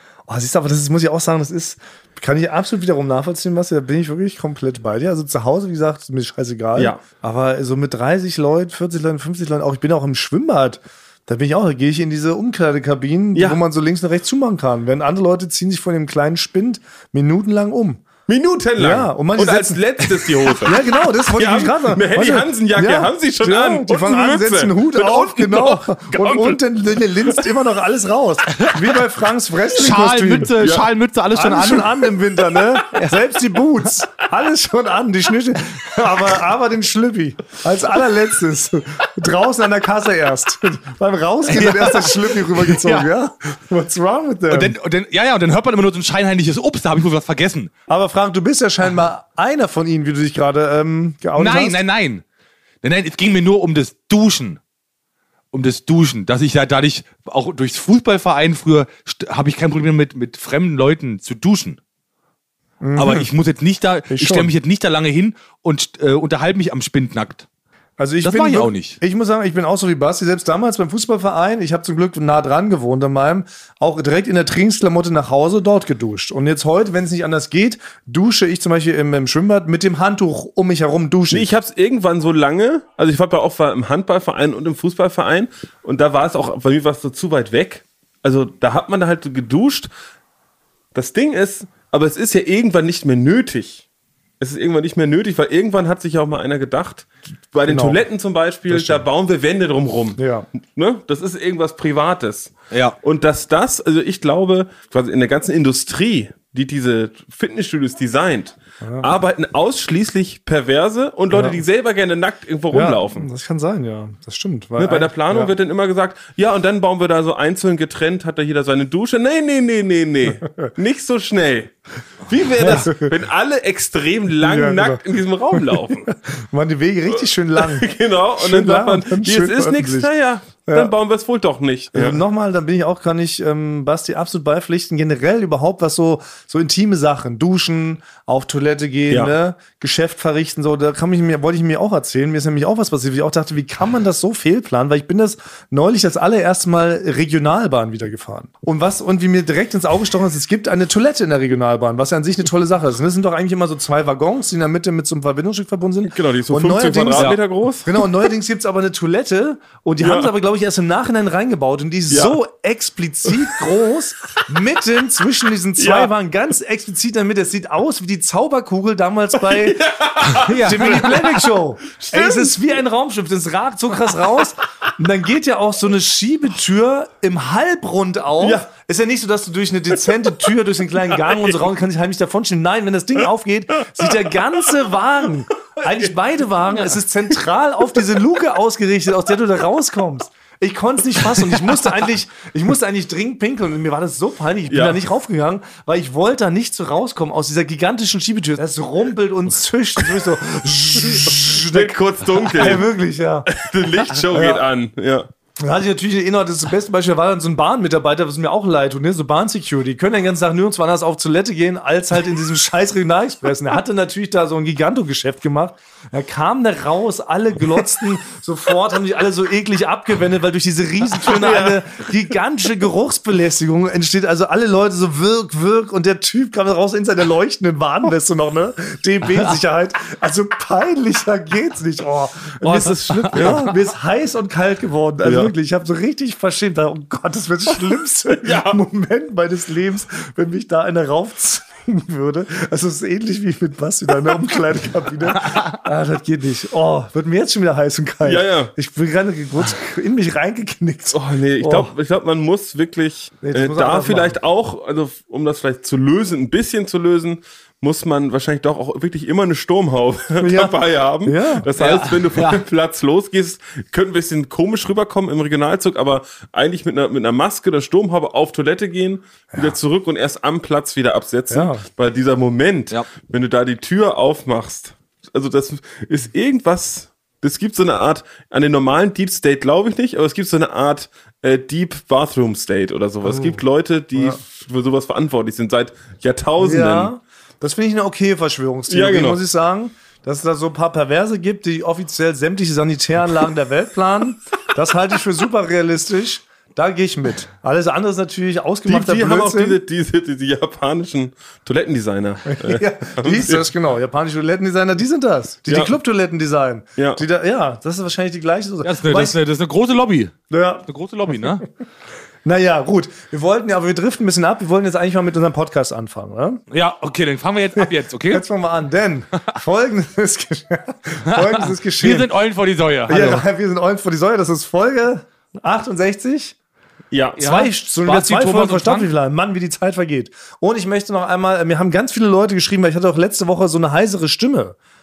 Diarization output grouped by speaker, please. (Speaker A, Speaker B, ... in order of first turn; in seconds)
Speaker A: 0.3-18.0, 18.8-30.8, 31.3-44.7, 47.9-51.8, 62.8-63.3, 64.1-64.5, 68.0-81.5, 97.7-98.0, 98.7-99.0, 100.2-100.5, 108.8-109.1, 111.3-111.6, 112.7-115.5, 120.4-120.7, 122.6-123.1, 124.4-130.1, 130.7-130.9, 131.9-169.8, 170.4-203.5, 204.2-204.6, 205.6-251.9, 253.4-254.4, 260.4-261.7, 269.5-269.8, 271.5-271.8, 283.2-283.6, 284.1-284.4, 286.6-299.8, 302.4-309.4, 310.5-311.6, 312.4-316.6, 317.8-322.3, 323.1-326.5, 327.4-334.8
Speaker B: 6.8-7.0, 13.3-13.6, 18.3-26.6, 81.3-89.9, 90.9-93.8, 94.4-113.3, 114.8-126.1, 127.5-132.2, 139.1-139.3, 156.0-158.1, 160.0-160.3, 162.1-162.4, 165.8-166.1, 169.4-171.3, 171.9-172.5, 178.4-178.7, 181.3-181.5, 194.7-195.0, 201.2-202.9, 203.5-205.3, 221.2-221.8, 232.6-233.7, 235.2-235.5, 238.3-238.8, 248.2-248.7, 251.1-287.1, 288.9-289.4, 298.9-303.6, 305.7-305.9, 307.0-307.2, 327.1-327.4
Speaker C: 28.5-28.9, 29.7-32.1, 32.9-33.2, 41.5-43.1, 44.5-47.7, 51.4-52.2, 52.8-54.6, 55.5-61.8, 62.9-67.5, 68.2-69.0, 102.7-103.0, 170.4-171.4, 261.8-262.6, 308.8-311.6, 316.7-318.4, 321.3-323.4, 327.4-329.1